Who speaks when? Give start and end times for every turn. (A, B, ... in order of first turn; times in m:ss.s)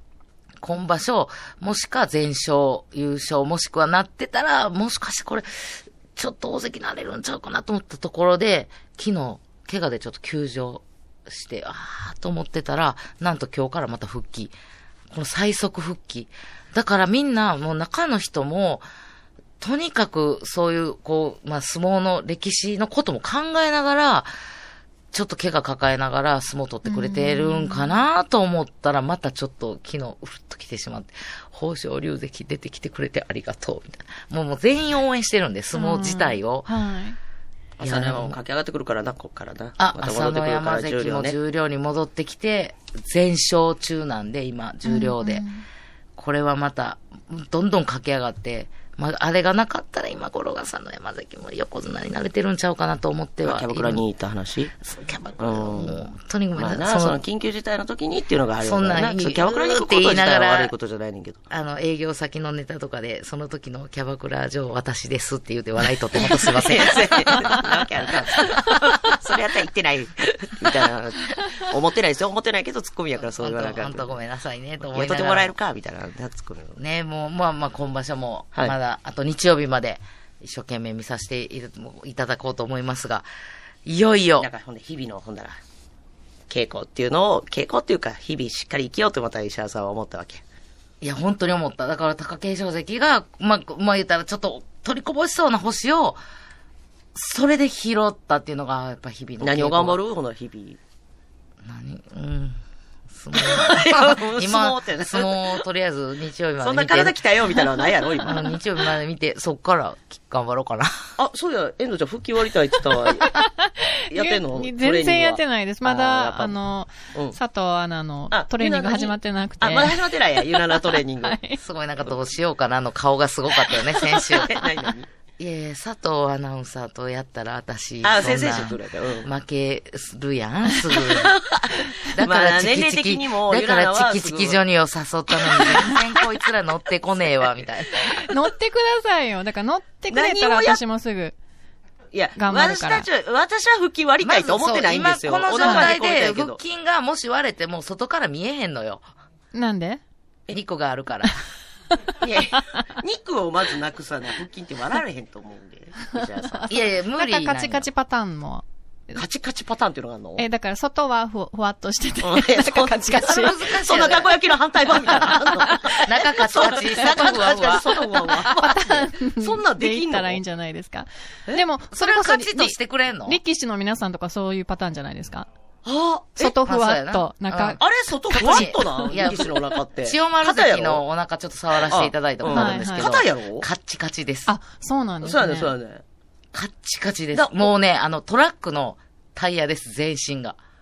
0:00.6-0:14.5 A
0:15.1-0:18.8 A
0:19.6-0:24.3 A
0:25.1-0:36.7 A
0:26.8-0:27.9 B
0:35.7-0:37.2 B
0:37.8-0:38.4 A
0:37.8-0:41.4 C
0:39.8-0:45.4 A
0:44.8-0:45.6 B
0:46.2-0:54.0 A
0:53.4-0:54.7 C
0:54.8-0:57.2 A
0:55.4-0:56.0 C
0:56.6-1:01.4 C
0:58.6-1:00.7 A
1:01.5-1:07.6 A
1:06.2-1:14.1 C
1:13.2-1:15.5 A
1:14.8-1:16.8 C
1:16.8-1:23.3 A
1:23.8-1:24.5 A
1:24.4-1:25.6 C
1:26.5-1:30.4 C
1:31.0-1:36.2 A
1:37.1-1:40.0 A
1:39.4-1:40.8 C
1:41.6-1:42.6 A
1:43.1-1:47.2 A
1:43.3-1:45.6 C
1:46.6-1:48.5 C
1:48.2-1:51.0 A
1:51.2-1:53.3 C
1:53.2-2:01.6 B
1:54.1-1:57.4 C
1:58.3-2:01.4 C
2:01.6-2:04.5 A
2:04.1-2:05.1 C
2:05.4-2:11.3 A
2:08.0-2:09.3 C
2:11.0-2:14.6 C
2:12.0-2:18.2 A
2:18.0-2:21.3 B
2:20.1-2:20.8 C
2:22.1-2:26.6 C
2:22.4-2:23.1 B
2:24.2-2:29.0 A
2:25.6-2:25.9 B
2:29.5-2:30.0 B
2:30.5-2:31.5 A
2:32.2-2:36.7 C
2:36.5-2:39.2 B
2:36.7-2:37.9 A
2:39.2-2:40.4 C
2:40.4-2:43.6 B
2:42.2-2:50.4 C
2:43.2-2:44.3 A
2:45.2-2:46.0 B
2:45.9-2:47.9 A
2:47.0-2:47.3 B
2:48.2-2:52.8 B
2:51.9-2:53.4 A
2:53.3-2:55.5 B
2:55.8-2:56.4 C
2:56.4-2:57.8 B
2:56.4-3:04.5 A
2:57.8-3:01.0 C
3:01.7-3:03.7 C
3:02.5-3:03.1 B
3:04.5-3:05.7 B
3:05.2-3:06.0 C
3:06.5-3:10.6 A
3:07.3-3:07.7 C